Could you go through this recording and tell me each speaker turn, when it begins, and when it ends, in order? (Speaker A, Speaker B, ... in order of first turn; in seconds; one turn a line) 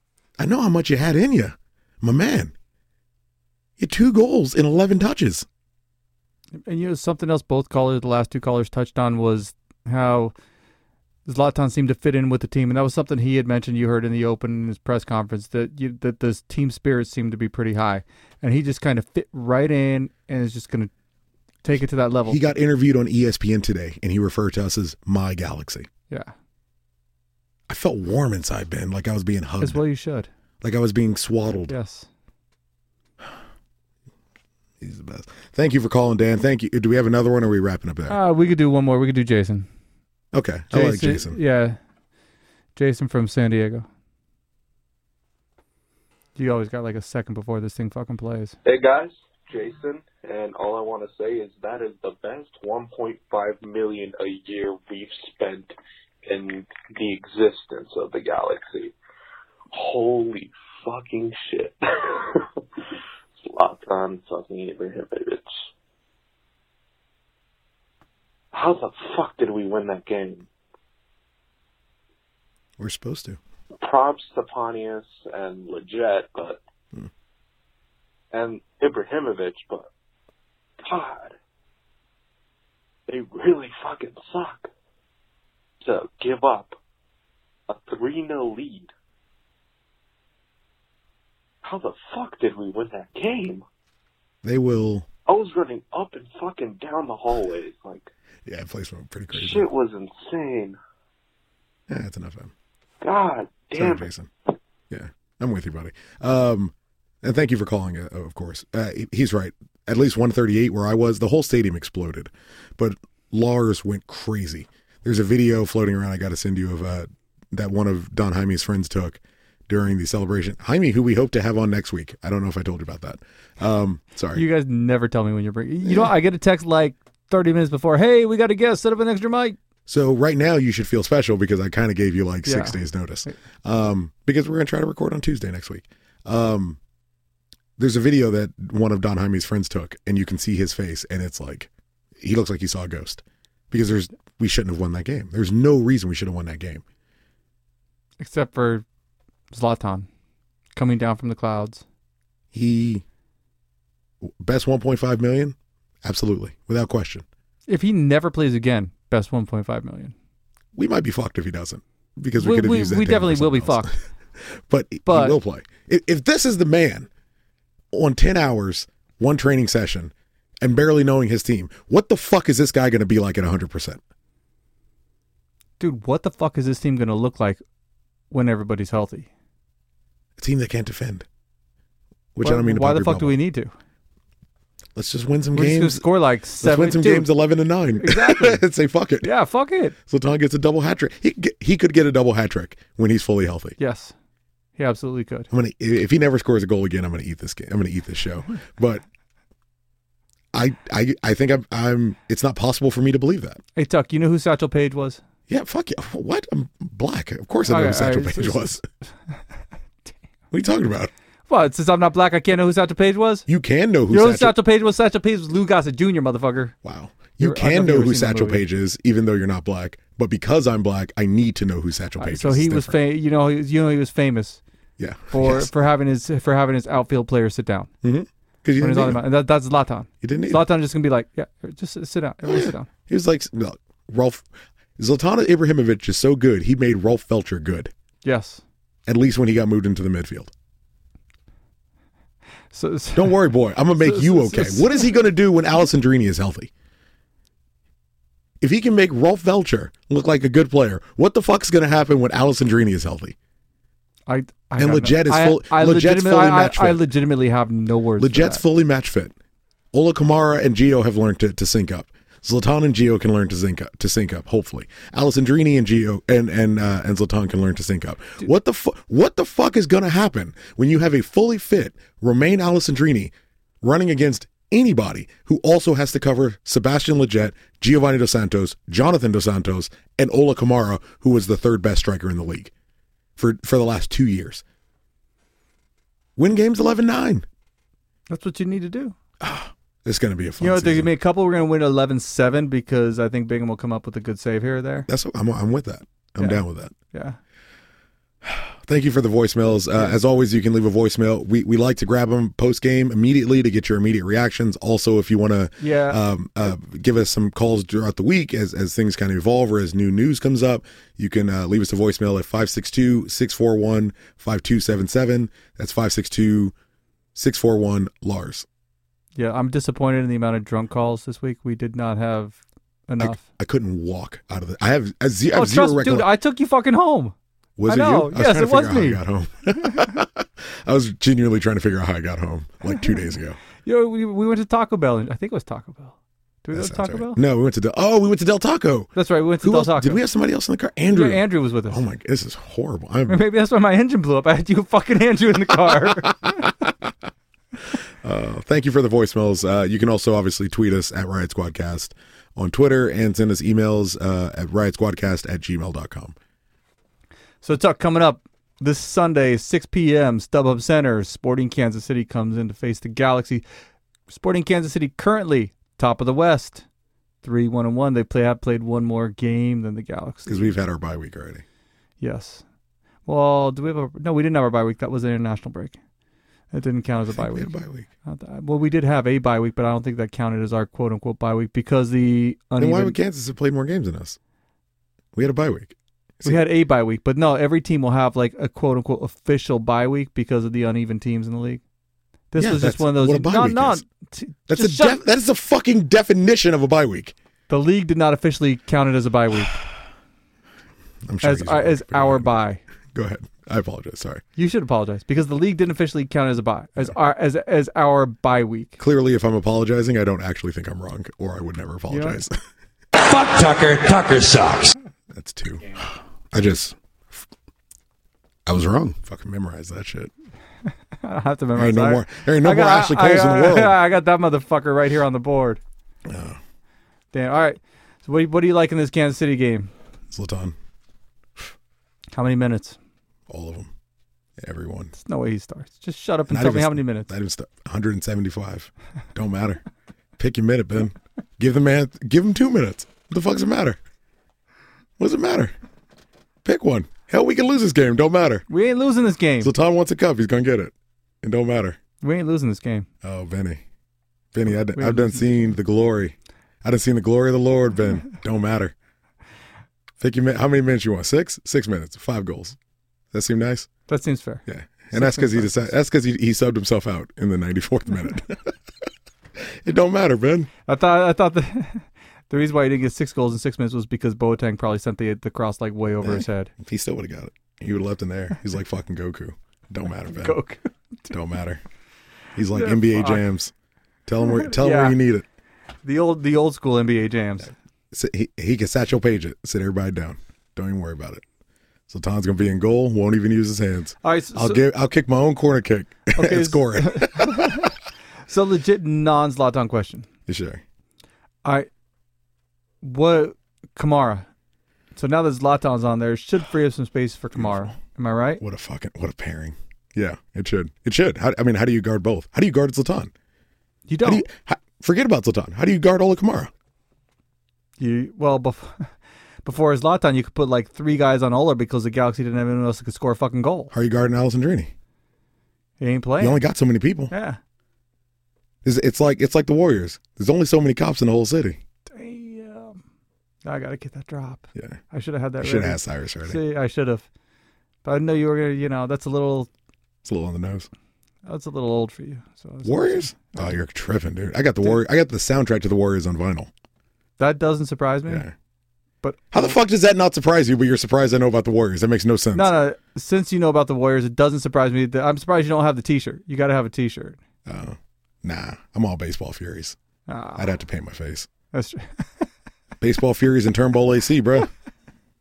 Speaker A: 0.4-2.5
Speaker A: 3.8-5.5
Speaker B: 6.7-10.3
Speaker B: 11.2-20.9
Speaker B: 21.6-22.4
Speaker A: 22.3-25.9
Speaker A: 27.7-29.8
Speaker B: 29.6-30.3
Speaker A: 30.6-31.7
Speaker B: 31.7-32.1
Speaker A: 34.8-38.2
Speaker B: 38.1-39.7
Speaker A: 40.3-41.4
Speaker B: 40.7-41.8
Speaker B: 42.8-43.9
Speaker B: 46.4-48.5
Speaker C: 48.6-55.7
Speaker C: 56.2-58.9
Speaker C: 59.7-62.4
Speaker C: 63.4-65.7
Speaker C: 68.5-70.5
Speaker A: 72.8-73.4
Speaker C: 73.8-76.6
Speaker C: 78.3-79.9
Speaker C: 80.8-81.4
Speaker C: 83.1-84.7
Speaker C: 85.8-86.8
Speaker C: 87.7-88.9
Speaker C: 91.6-93.7
Speaker A: 94.4-95.1
Speaker C: 95.2-98.1
Speaker A: 98.5-99.7
Speaker C: 99.3-100.8
Speaker A: 101.9-102.5
Speaker C: 103.0-104.1
Speaker A: 103.8-104.3
Speaker A: 104.9-124.4
Speaker B: 124.3-129.6
Speaker A: 125.8-126.1
Speaker A: 129.9-136.8
Speaker B: 132.4-133.3
Speaker A: 137.8-146.8
Speaker B: 148.2-148.8
Speaker B: 149.5-150.1
Speaker B: 150.7-151.8
Speaker A: 152.5-153.0
Speaker A: 154.2-157.2
Speaker B: 157.7-160.1
Speaker A: 160.7-167.1
Speaker B: 162.3-163.9
Speaker B: 165.0-165.4
Speaker A: 167.9-174.0
Speaker B: 175.8-177.6
Speaker B: 178.3-179.3
Speaker A: 180.4-181.2
Speaker A: 182.3-183.4
Speaker B: 182.4-183.7
Speaker A: 184.9-186.1
Speaker B: 185.5-187.3
Speaker A: 186.6-189.3
Speaker B: 188.0-188.6
Speaker B: 189.2-189.9
Speaker A: 190.1-193.8
Speaker B: 193.8-194.1
Speaker B: 194.8-195.5
Speaker A: 195.5-199.0
Speaker A: 200.5-203.6
Speaker B: 203.8-205.2
Speaker A: 205.5-208.8
Speaker B: 207.7-208.8
Speaker A: 210.5-211.1
Speaker B: 211.5-213.5
Speaker A: 213.5-214.6
Speaker B: 214.1-216.7
Speaker A: 216.8-223.0
Speaker B: 217.4-218.6
Speaker B: 222.2-224.6
Speaker A: 225.0-225.7
Speaker B: 225.3-227.9
Speaker A: 228.0-229.2
Speaker B: 228.8-232.9
Speaker A: 230.2-230.7
Speaker A: 232.4-234.4
Speaker A: 235.0-237.9
Speaker B: 238.2-238.6
Speaker A: 239.1-240.5
Speaker B: 242.7-245.1
Speaker A: 243.1-246.7
Speaker A: 248.6-253.3
Speaker B: 254.3-258.6
Speaker A: 254.8-257.0
Speaker A: 258.2-259.3
Speaker A: 259.9-282.7
Speaker A: 283.4-284.6
Speaker A: 286.4-287.4
Speaker B: 288.3-289.1
Speaker A: 289.4-291.1
Speaker B: 290.6-295.1
Speaker A: 295.1-296.9
Speaker B: 296.4-297.4
Speaker A: 298.4-316.7
Speaker B: 305.8-306.2
Speaker A: 317.3-318.6
Speaker B: 319.4-323.4
Speaker A: 323.2-326.3
Speaker B: 325.5-327.3
Speaker A: 327.8-333.6
Speaker B: 327.9-329.2
Speaker B: 333.8-337.4
Speaker A: 336.7-343.4
Speaker B: 339.1-340.2
Speaker B: 341.1-342.0
Speaker B: 343.3-346.6
Speaker A: 346.1-347.1
Speaker A: 348.2-356.4
Speaker B: 357.6-363.6
Speaker B: 364.3-366.8
Speaker B: 367.4-370.7
Speaker A: 370.5-371.6
Speaker B: 372.2-372.6
Speaker B: 373.2-376.0
Speaker B: 376.7-377.7
Speaker A: 377.3-378.1
Speaker B: 378.2-383.1
Speaker A: 382.8-384.4
Speaker A: 385.3-386.6
Speaker B: 386.4-391.8
Speaker B: 392.5-395.2
Speaker A: 392.6-394.0
Speaker A: 394.7-397.3
Speaker B: 397.7-399.7
Speaker A: 401.3-402.5
Speaker B: 401.4-402.8
Speaker A: 403.1-404.4
Speaker B: 404.6-409.0
Speaker A: 409.0-412.5
Speaker B: 412.1-412.4
Speaker A: 413.5-417.5
Speaker A: 418.6-420.3
Speaker B: 421.2-425.8
Speaker A: 421.7-424.0
Speaker A: 426.2-426.6
Speaker B: 427.3-429.9
Speaker A: 430.3-430.8
Speaker B: 432.3-433.0
Speaker A: 433.5-433.9
Speaker A: 434.6-435.1
Speaker B: 435.1-437.3
Speaker A: 436.5-439.8
Speaker A: 440.4-444.0
Speaker A: 445.2-445.7
Speaker A: 446.6-448.6
Speaker B: 448.7-449.7
Speaker A: 449.6-452.0
Speaker B: 452.2-453.1
Speaker A: 453.2-453.8
Speaker A: 454.5-458.9
Speaker B: 454.9-455.7
Speaker A: 460.2-462.8
Speaker A: 463.3-463.9
Speaker B: 464.1-465.9
Speaker A: 464.6-468.7
Speaker A: 469.6-470.7
Speaker B: 470.9-476.7
Speaker A: 476.2-480.6
Speaker B: 480.3-481.3
Speaker A: 481.3-481.8
Speaker A: 482.6-483.7
Speaker B: 482.7-483.4
Speaker A: 484.2-485.4
Speaker B: 484.4-485.2
Speaker B: 486.0-487.7
Speaker A: 488.1-491.4
Speaker A: 492.1-497.9
Speaker B: 494.2-494.8
Speaker B: 496.3-497.9
Speaker B: 498.5-500.3
Speaker A: 500.5-500.8
Speaker B: 503.0-504.5
Speaker B: 505.1-508.6
Speaker A: 507.5-507.9
Speaker A: 508.6-513.3
Speaker B: 514.1-514.4
Speaker A: 514.2-516.7
Speaker B: 518.0-519.1
Speaker B: 519.6-523.9
Speaker A: 523.9-524.9
Speaker B: 526.0-526.6
Speaker A: 526.4-527.3
Speaker B: 527.3-527.6
Speaker A: 528.8-531.8
Speaker B: 532.1-533.0
Speaker B: 533.6-537.2
Speaker A: 535.6-536.6
Speaker B: 538.0-539.7
Speaker A: 540.2-540.9
Speaker B: 541.4-543.8
Speaker A: 542.8-546.7
Speaker B: 547.4-548.5
Speaker A: 548.3-548.5
Speaker B: 549.2-549.8
Speaker A: 549.5-552.8
Speaker B: 552.5-557.4
Speaker A: 557.6-560.0
Speaker B: 560.3-560.7
Speaker A: 560.5-561.5
Speaker B: 561.7-562.5
Speaker A: 563.0-564.7